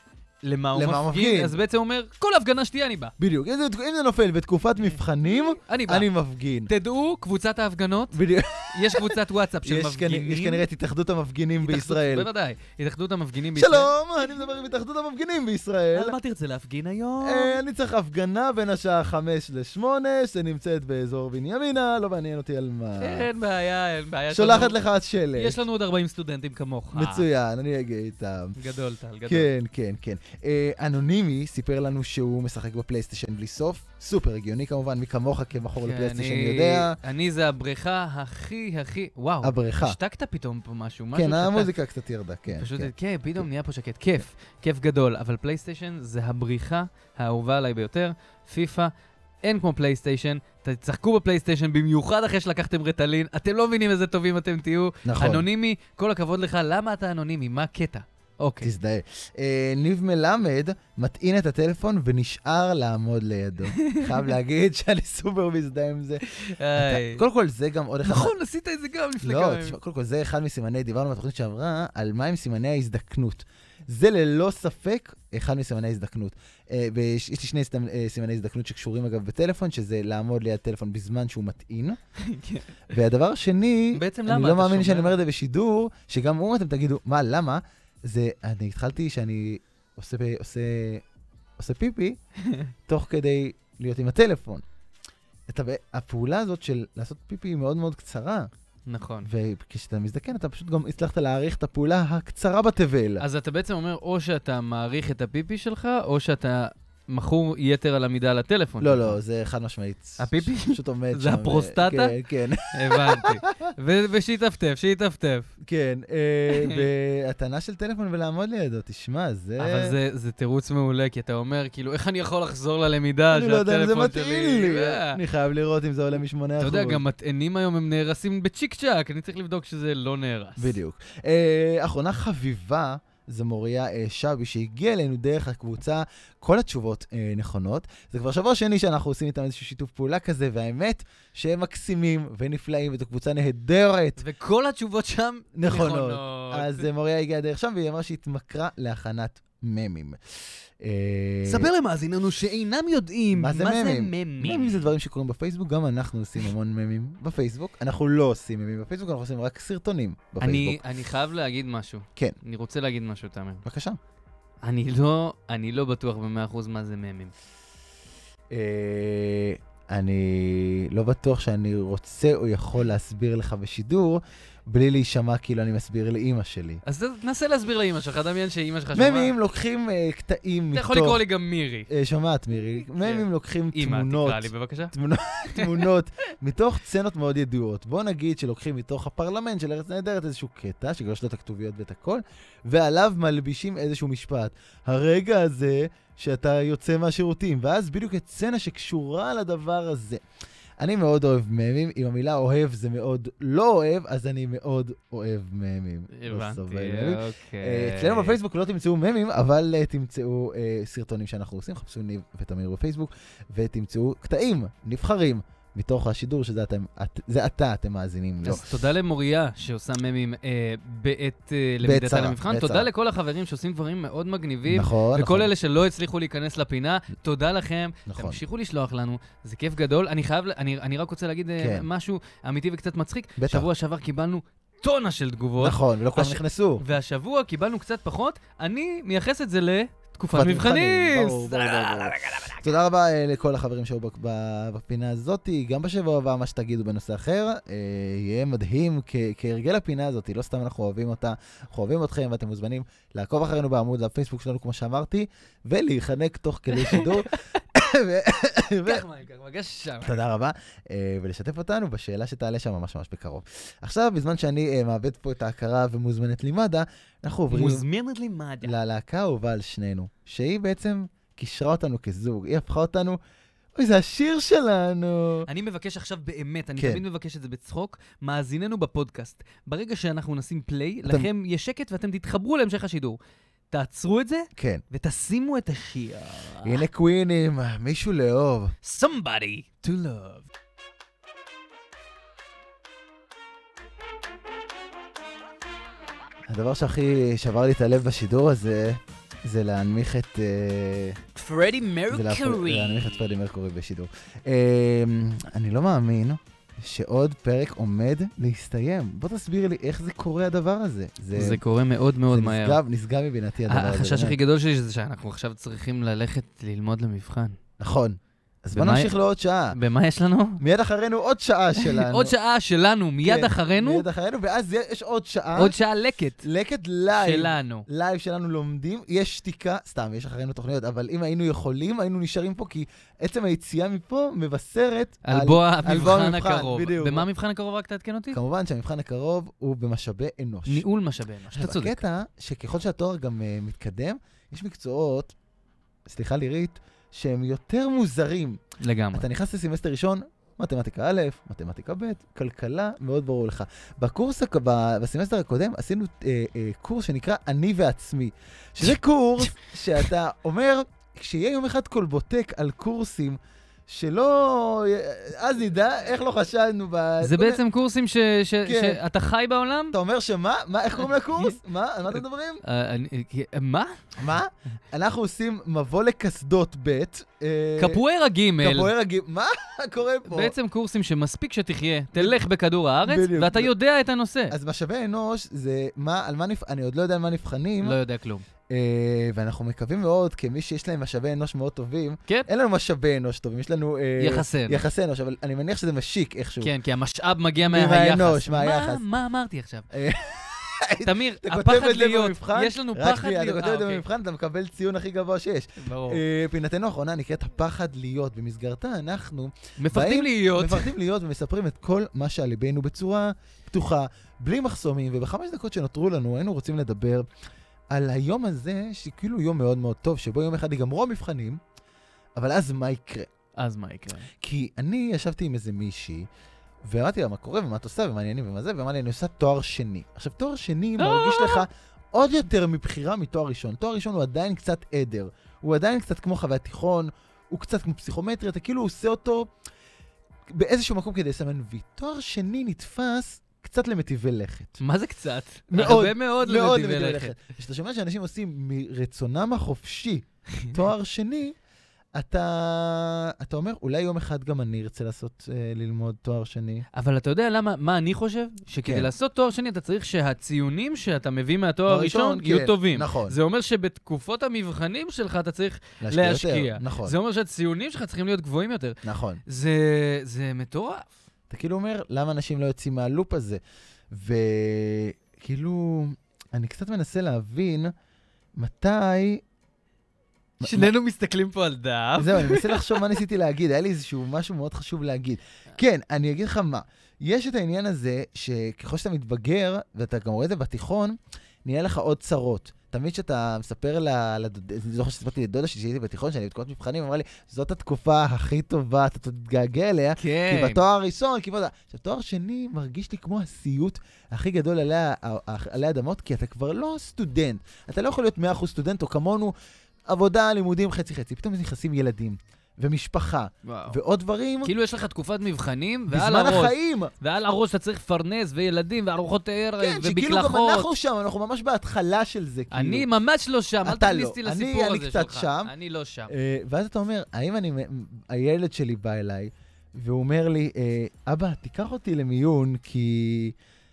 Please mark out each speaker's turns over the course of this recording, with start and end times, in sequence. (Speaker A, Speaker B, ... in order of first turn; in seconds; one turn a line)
Speaker A: 0.4-3.1
Speaker B: 0.7-1.6
Speaker B: 3.2-6.7
Speaker A: 5.5-6.1
Speaker A: 6.7-8.2
Speaker B: 8.1-12.3
Speaker A: 8.7-10.6
Speaker A: 11.6-13.9
Speaker B: 13.5-16.1
Speaker A: 15.9-17.6
Speaker B: 17.2-23.3
Speaker A: 23.0-24.8
Speaker B: 24.3-25.6
Speaker A: 25.4-27.2
Speaker B: 26.9-28.6
Speaker A: 28.6-29.5
Speaker B: 29.2-37.0
Speaker A: 35.8-41.7
Speaker B: 39.4-40.0
Speaker B: 41.1-43.4
Speaker A: 42.5-48.9
Speaker A: 49.4-58.7
Speaker B: 55.0-55.5
Speaker B: 58.6-68.3
Speaker A: 63.8-64.1
Speaker A: 66.3-67.2
Speaker A: 68.0-69.8
Speaker B: 69.2-82.0
Speaker A: 82.2-82.8
Speaker B: 82.9-91.0
Speaker A: 83.9-85.1
Speaker B: 91.6-92.2
Speaker A: 92.4-92.7
Speaker B: 92.9-94.6
Speaker B: 95.5-98.5
Speaker A: 98.9-99.3
Speaker B: 99.2-103.2
Speaker A: 103.2-109.2
Speaker B: 108.8-113.7
Speaker A: 110.2-112.1
Speaker A: 112.7-115.5
Speaker B: 115.6-120.0
Speaker A: 116.5-116.8
Speaker A: 119.6-125.2
Speaker B: 123.3-127.0
Speaker A: 126.6-130.7
Speaker B: 130.6-144.2
Speaker A: 144.2-146.9
Speaker B: 145.5-151.7
Speaker A: 151.4-154.9
Speaker B: 153.3-160.8
Speaker A: 160.4-163.6
Speaker B: 163.6-164.0
Speaker A: 164.6-167.3
Speaker B: 168.5-176.8
Speaker A: 176.8-179.3
Speaker B: 178.9-181.2
Speaker A: 180.7-181.9
Speaker B: 181.9-200.2
Speaker A: 183.0-184.9
Speaker A: 185.5-185.9
Speaker B: 200.8-218.7
Speaker A: 206.1-208.4
Speaker A: 218.4-242.7
Speaker B: 221.8-222.9
Speaker B: 224.7-225.5
Speaker B: 228.1-228.4
Speaker B: 231.6-231.9
Speaker B: 233.4-233.7
Speaker B: 235.6-236.8
Speaker B: 240.3-259.0
Speaker A: 256.7-257.4
Speaker A: 258.8-260.2
Speaker B: 260.0-267.8
Speaker A: 267.5-268.8
Speaker B: 268.6-273.2
Speaker B: 273.8-275.5
Speaker A: 275.5-283.2
Speaker B: 276.8-277.0
Speaker A: 283.7-286.8
Speaker B: 284.6-284.8
Speaker B: 286.6-288.7
Speaker A: 288.8-290.5
Speaker B: 296.5-301.2
Speaker A: 301.3-303.3
Speaker B: 302.1-311.6
Speaker A: 311.3-312.8
Speaker B: 312.3-314.4
Speaker A: 313.7-317.6
Speaker B: 317.8-319.8
Speaker A: 318.7-319.1
Speaker A: 319.7-320.6
Speaker B: 320.6-322.3
Speaker A: 321.8-324.1
Speaker B: 323.2-325.8
Speaker A: 325.6-326.4
Speaker B: 326.4-337.2
Speaker A: 327.1-327.9
Speaker A: 335.2-338.4
Speaker B: 338.3-340.9
Speaker A: 340.7-342.0
Speaker B: 341.5-345.3
Speaker B: 346.1-348.6
Speaker A: 348.8-349.2
Speaker B: 349.1-367.6
Speaker A: 367.2-370.0
Speaker B: 368.6-369.0
Speaker B: 369.9-372.6
Speaker A: 372.1-374.0
Speaker B: 374.2-378.0
Speaker A: 377.8-378.9
Speaker B: 378.6-380.5
Speaker A: 380.3-384.5
Speaker B: 383.1-383.7
Speaker B: 384.5-388.0
Speaker A: 387.8-388.4
Speaker B: 388.7-396.7
Speaker A: 394.2-394.8
Speaker A: 396.6-399.9
Speaker B: 397.7-399.0
Speaker B: 399.9-417.3
Speaker A: 401.0-404.0
Speaker A: 405.8-406.2
Speaker A: 409.8-410.9
Speaker B: 417.9-421.6
Speaker B: 422.4-423.3
Speaker A: 423.6-424.3
Speaker B: 424.4-426.3
Speaker B: 426.8-439.5
Speaker A: 431.0-431.6
Speaker B: 440.5-444.8
Speaker A: 444.8-447.3
Speaker B: 445.7-451.6
Speaker B: 452.1-456.8
Speaker A: 456.9-471.1
Speaker B: 458.8-459.1
Speaker B: 461.9-463.3
Speaker B: 466.0-467.1
Speaker B: 469.0-469.4
Speaker B: 471.5-477.9
Speaker B: 478.6-479.4
Speaker B: 480.6-480.9
Speaker A: 480.6-483.2
Speaker B: 482.2-509.5
Speaker A: 500.2-500.8
Speaker B: 510.1-514.7
Speaker A: 513.6-514.0
Speaker A: 514.6-520.9
Speaker B: 516.1-517.1
Speaker B: 519.8-523.1
Speaker A: 522.7-526.3
Speaker B: 523.8-525.7
Speaker B: 526.3-533.5